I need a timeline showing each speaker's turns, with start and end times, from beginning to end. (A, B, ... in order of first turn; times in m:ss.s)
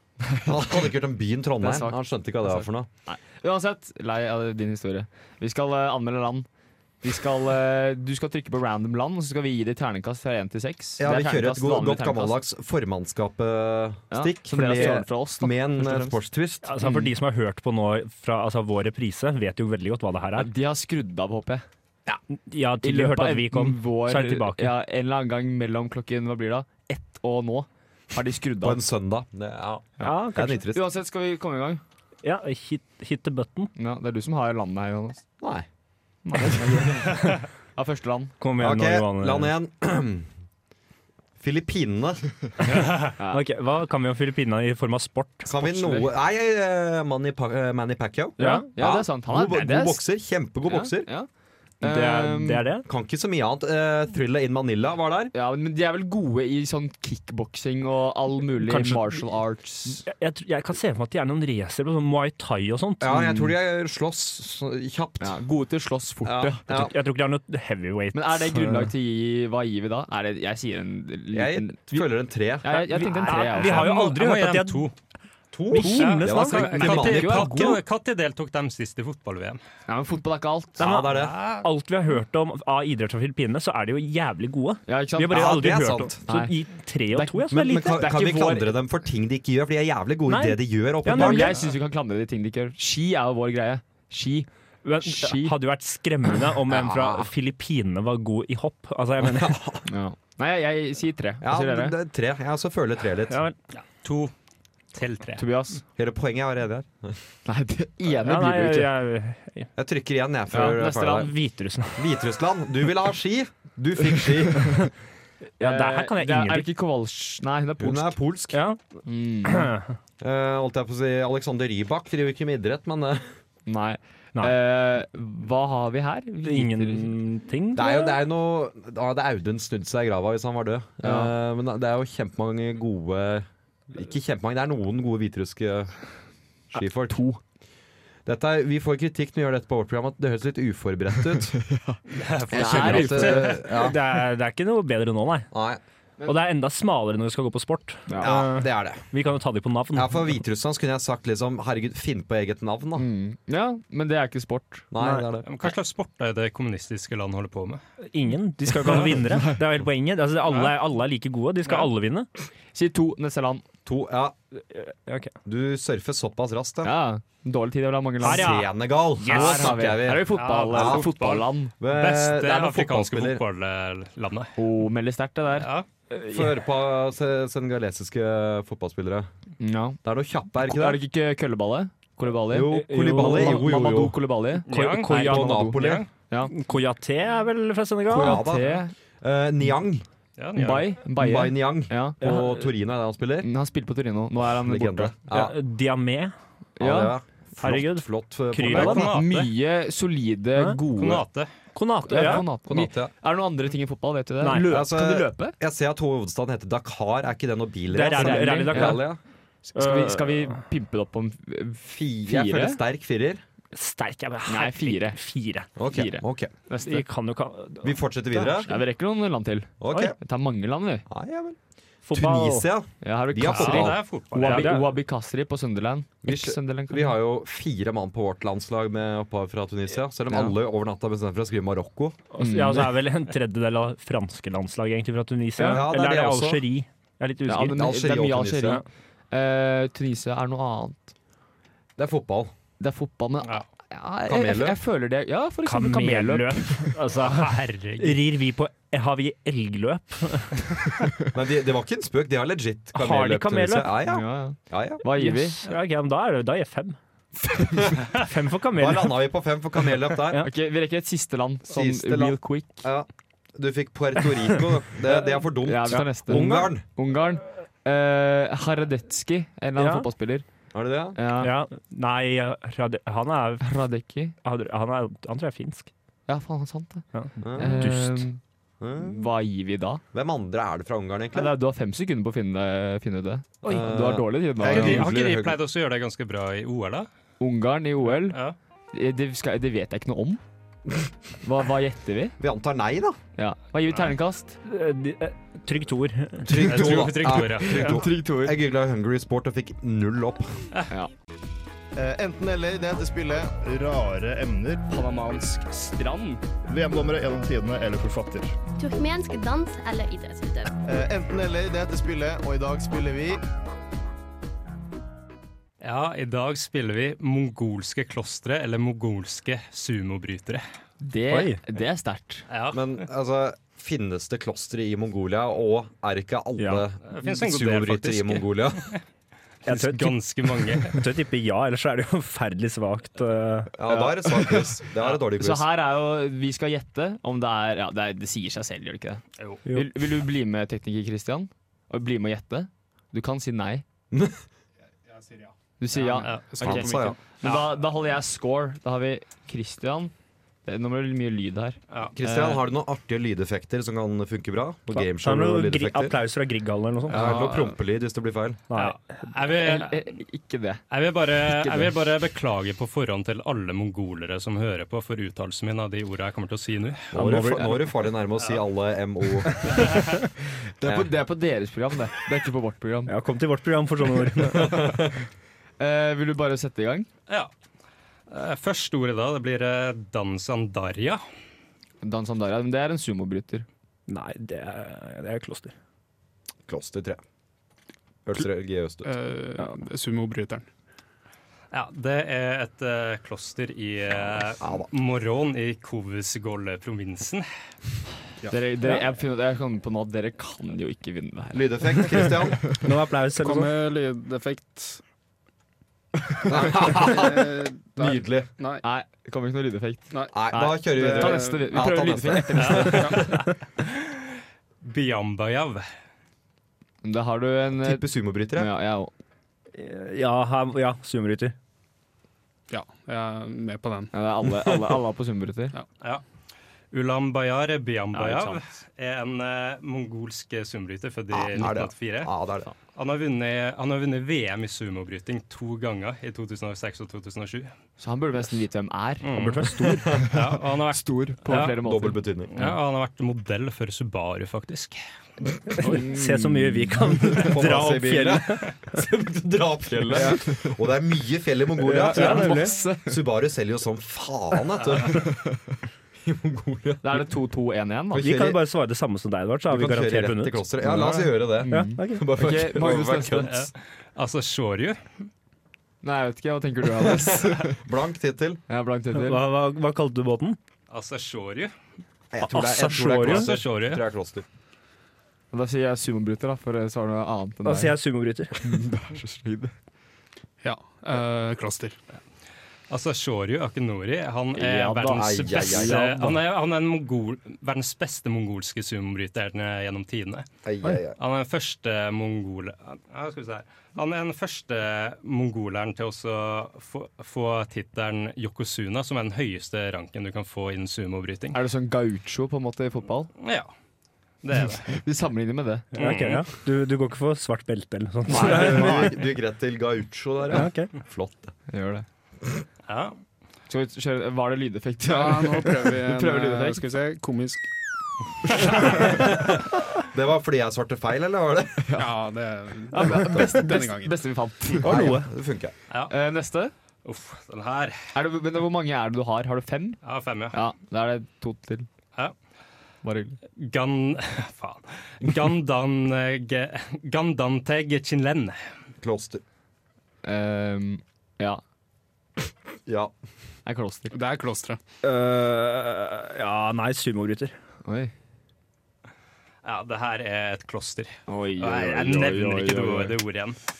0:00.4-0:02.9 A
0:01.6-0:06.5 B
0:07.0-0:12.4 B
0:11.0-0:16.7 A
0:14.1-0:16.2 B
0:16.6-0:20.5 C
0:16.8-0:17.1 B
0:20.4-0:21.6 B
0:22.4-0:24.7 C
0:22.8-0:28.8 B
0:28.6-0:30.8 A
0:30.0-0:31.8 B
0:30.0-0:30.6 C
0:32.2-0:33.7 C
0:33.8-0:35.2 B
0:35.4-0:35.7 A
0:36.2-0:38.4 B
0:38.4-0:39.5 C
0:38.6-0:40.3 A
0:41.4-0:42.2 A
0:43.2-0:43.4 B
0:43.3-0:45.5 C
0:45.5-0:51.1 A
0:45.6-0:46.0 B
0:48.4-0:50.0 B
0:48.4-0:48.7 C
0:50.6-0:51.3 B
0:51.8-0:52.7 B
0:51.8-0:52.9 C
0:52.9-0:55.3 A
0:55.3-1:00.1 B
0:58.6-0:59.2 C
1:00.1-1:03.3 C
1:03.0-1:05.4 A
1:05.2-1:06.6 B
1:06.2-1:06.9 A
1:06.7-1:08.9 C
1:08.1-1:12.1 B
1:11.3-1:12.8 A
1:12.6-1:13.9 B
1:12.7-1:14.9 C
1:13.6-1:14.9 D
1:15.5-1:17.8 A
1:15.7-1:17.2 C
1:15.8-1:19.6 D
1:16.4-1:17.8 B
1:19.9-1:20.8 B
1:20.8-1:21.4 A
1:20.8-1:28.0 C
1:21.1-1:21.6 D
1:24.9-1:25.7 B
1:25.3-1:26.2 A
1:26.3-1:26.5 B
1:27.1-1:28.8 B
1:27.5-1:31.6 A
1:30.3-1:31.6 C
1:31.1-1:34.5 B
1:34.8-1:39.6 C
1:35.0-1:35.6 B
1:36.7-1:37.3 A
1:39.2-1:39.8 A
1:39.9-1:42.0 B
1:41.4-1:43.4 A
1:43.3-1:43.6 C
1:43.8-1:44.3 D
1:44.9-1:45.5 D
1:45.4-1:45.8 B
1:46.0-1:47.2 A
1:47.5-1:48.9 B
1:48.1-1:49.7 C
1:49.8-1:51.3 A
1:50.5-1:51.3 B
1:50.6-1:52.0 C
1:52.0-1:54.9 A
1:55.6-1:56.7 C
1:55.6-1:58.2 B
1:57.8-1:58.6 A
1:58.5-1:58.8 C
1:59.1-1:59.7 B
1:59.4-2:00.0 C
2:00.2-2:03.3 A
2:03.7-2:07.2 B
2:06.4-2:08.2 C
2:07.7-2:16.0 A
2:11.0-2:11.3 B
2:16.7-2:17.2 A
2:17.1-2:17.4 B
2:18.3-2:21.6 A
2:21.7-2:22.0 B
2:22.1-2:23.6 D
2:22.5-2:23.7 B
2:22.5-2:24.0 A
2:22.8-2:25.5 C
2:25.5-2:25.8 A
2:26.3-2:30.2 C
2:28.1-2:28.4 B
2:28.2-2:29.1 A
2:29.9-2:33.1 A
2:33.0-2:34.9 B
2:34.9-2:35.5 A
2:35.0-2:35.3 C
2:35.5-2:37.8 D
2:38.1-2:42.3 C
2:42.7-2:43.6 B
2:43.9-2:44.4 A
2:44.7-2:45.3 C
2:45.5-2:46.9 A
2:46.8-2:48.6 B
2:48.2-2:49.8 C
2:48.2-2:51.1 A
2:49.2-2:51.7 B
2:50.4-2:54.5 D
2:51.8-2:53.4 A
2:54.6-2:55.7 B
2:55.6-2:55.9 D
2:56.2-2:56.5 C
2:56.2-2:59.3 A
2:59.6-3:00.0 B
3:00.0-3:01.0 A
3:00.6-3:05.7 B
3:02.5-3:04.2 A
3:02.7-3:04.1 C
3:04.7-3:06.1 D
3:04.7-3:05.8 C
3:05.1-3:06.1 A
3:06.5-3:08.4 C
3:08.1-3:10.0 A
3:08.1-3:08.9 B
3:10.4-3:11.0 D
3:10.6-3:12.2 B
3:11.2-3:13.5 A
3:12.2-3:12.7 C
3:13.4-3:15.2 B
3:14.6-3:15.6 A
3:15.3-3:16.3 C
3:16.8-3:19.1 A
3:16.8-3:17.1 B
3:17.6-3:19.1 C
3:18.7-3:19.5 D
3:18.8-3:21.2 B
3:21.0-3:21.5 D
3:21.8-3:22.5 C
3:22.0-3:25.6 B
3:22.2-3:23.1 A
3:24.4-3:24.7 C
3:24.7-3:29.2 A
3:27.9-3:29.1 C
3:28.1-3:29.0 B
3:29.7-3:32.8 B
3:29.8-3:30.6 C
3:31.9-3:33.4 A
3:33.7-3:35.7 C
3:34.5-3:35.2 B
3:35.8-3:36.5 A
3:35.9-3:37.0 B
3:36.8-3:38.7 C
3:37.8-3:38.7 A
3:38.7-3:41.1 B
3:39.8-3:40.2 A
3:41.1-3:41.6 A
3:42.1-3:42.7 C
3:42.1-3:44.0 A
3:43.0-3:47.1 B
3:43.5-3:44.7 D
3:44.4-3:45.0 C
3:46.2-3:52.2 A
3:52.3-3:57.8 C
3:52.4-3:52.9 B
3:55.6-3:56.6 A
3:57.5-4:01.1 B
3:57.7-3:58.8 A
4:02.0-4:02.5 A
4:02.8-4:07.0 B
4:04.3-4:04.8 A
4:05.6-4:10.9 C
4:07.2-4:08.2 D
4:11.3-4:15.0 A
4:13.0-4:13.9 C
4:14.1-4:15.6 B
4:15.1-4:17.0 C
4:17.7-4:18.1 A
4:18.1-4:19.2 C
4:18.8-4:20.4 A
4:20.4-4:22.9 B
4:21.7-4:26.8 A
4:25.1-4:30.5 B
4:25.9-4:26.7 C
4:29.8-4:30.1 C
4:30.7-4:31.2 A
4:31.2-4:31.5 B
4:31.4-4:33.8 C
4:33.6-4:34.4 B
4:34.4-4:35.9 C
4:36.3-4:38.4 B
4:37.1-4:38.3 C
4:37.4-4:37.8 A
4:38.8-4:39.3 A
4:39.0-4:40.0 B
4:40.1-4:41.5 A
4:41.3-4:45.1 B
4:43.6-4:45.6 A
4:44.6-4:47.1 D
4:47.4-4:48.4 B
4:48.2-4:48.6 D
4:48.9-4:50.4 B
4:51.4-4:52.4 B
4:52.4-4:53.2 A
4:53.4-4:54.6 B
4:54.7-4:56.8 C
4:56.4-5:00.6 A
4:56.7-4:58.0 D
4:57.7-4:58.6 B
5:02.0-5:08.6 E
5:08.8-5:10.8 F
5:10.8-5:13.4 E
5:15.8-5:20.6 D
5:21.0-5:22.5 B
5:21.3-5:21.6 C
5:22.5-5:23.0 D
5:22.7-5:28.9 A
5:26.6-5:26.8 C
5:27.1-5:29.0 D
5:29.7-5:31.0 D
5:29.7-5:33.7 C
5:33.8-5:35.7 A
5:33.9-5:43.8 B
5:39.7-5:39.9 C
5:44.1-5:44.4 A
5:45.1-5:47.1 G
5:45.8-5:50.1 B
5:46.2-5:46.5 D
5:46.6-5:47.2 A
5:47.4-5:47.7 D
5:50.6-5:52.6 B
5:52.2-5:56.2 A
5:55.0-5:57.6 C
5:57.1-5:58.6 A
5:58.7-5:59.0 C
5:58.7-6:00.0 D
5:59.6-6:00.8 B
6:00.9-6:07.1 D
6:01.4-6:01.9 B
6:07.1-6:09.8 A
6:07.2-6:07.8 C
6:10.8-6:13.2 B
6:10.8-6:11.1 A
6:13.1-6:15.0 C
6:14.5-6:15.1 A
6:15.8-6:17.1 B
6:18.3-6:21.2 D
6:22.0-6:23.7 B
6:24.1-6:25.7 C
6:26.7-6:27.2 A
6:28.3-6:29.1 A
6:29.0-6:30.7 G
6:31.7-6:37.5 D
6:34.6-6:34.9 A
6:38.5-6:42.4 B
6:41.5-6:42.7 A
6:42.7-6:43.7 C
6:43.4-6:45.0 G
6:46.4-6:48.5 A
6:46.7-6:48.8 G
6:48.8-6:53.2 B
6:50.1-6:51.8 G
6:50.3-6:53.3 A
6:52.6-6:54.2 D
6:54.8-6:55.9 D
6:57.0-6:59.1 B
6:57.8-6:58.7 A
6:59.8-7:01.6 C
7:02.7-7:04.1 G
7:04.1-7:05.7 B
7:06.9-7:12.3 D
7:08.1-7:08.7 B
7:11.3-7:12.7 A
7:12.9-7:17.7 D
7:18.0-7:19.3 B
7:19.2-7:21.8 D
7:19.3-7:20.2 C
7:20.9-7:22.7 B
7:21.8-7:22.5 A
7:22.5-7:25.0 D
7:25.7-7:28.7 C
7:25.8-7:27.0 B
7:27.3-7:35.2 A
7:31.8-7:32.8 C
7:31.9-7:33.2 B
7:36.2-7:37.2 A
7:37.0-7:38.3 B
7:38.1-7:38.6 A
7:38.2-7:40.6 C
7:39.7-7:43.6 A
7:40.8-7:43.7 B
7:41.7-7:42.3 C
7:43.5-7:45.3 D
7:46.0-7:47.8 B
7:47.4-7:48.6 A
7:48.7-7:49.4 B
7:49.1-7:50.6 C
7:50.9-7:51.7 D
7:52.3-7:54.4 A
7:52.4-7:53.5 C
7:53.2-7:54.0 D
7:55.5-7:58.0 B
7:57.6-7:58.8 C
7:58.6-7:59.7 B
8:00.6-8:02.0 G
8:02.9-8:10.5 D
8:04.6-8:06.4 B
8:05.1-8:06.2 A
8:10.6-8:11.2 A
8:11.2-8:21.6 D
8:21.5-8:23.3 B
8:23.4-8:23.7 D
8:24.4-8:24.9 D
8:24.9-8:25.9 B
8:25.9-8:26.4 D
8:26.0-8:29.1 C
8:28.3-8:29.1 B
8:28.3-8:31.6 A
8:30.5-8:30.9 C
8:31.7-8:32.0 B
8:32.9-8:33.2 D
8:33.7-8:36.9 B
8:35.0-8:37.7 G
8:39.0-8:41.9 A
8:41.9-8:42.1 B
8:42.0-8:44.2 G
8:42.9-8:45.2 B
8:44.8-8:45.3 C
8:44.8-8:45.7 A
8:46.1-8:46.7 B
8:47.0-8:48.1 D
8:48.1-8:50.0 B
8:50.0-8:50.6 D
8:50.5-8:51.9 B
8:53.0-8:53.4 B
8:53.6-8:58.7 D
8:59.0-8:59.4 A
9:00.2-9:01.6 B
9:02.9-9:03.1 A
9:03.7-9:04.2 B
9:04.1-9:04.8 G
9:05.0-9:07.5 C
9:07.8-9:08.1 B
9:09.6-9:13.6 D
9:11.3-9:13.2 B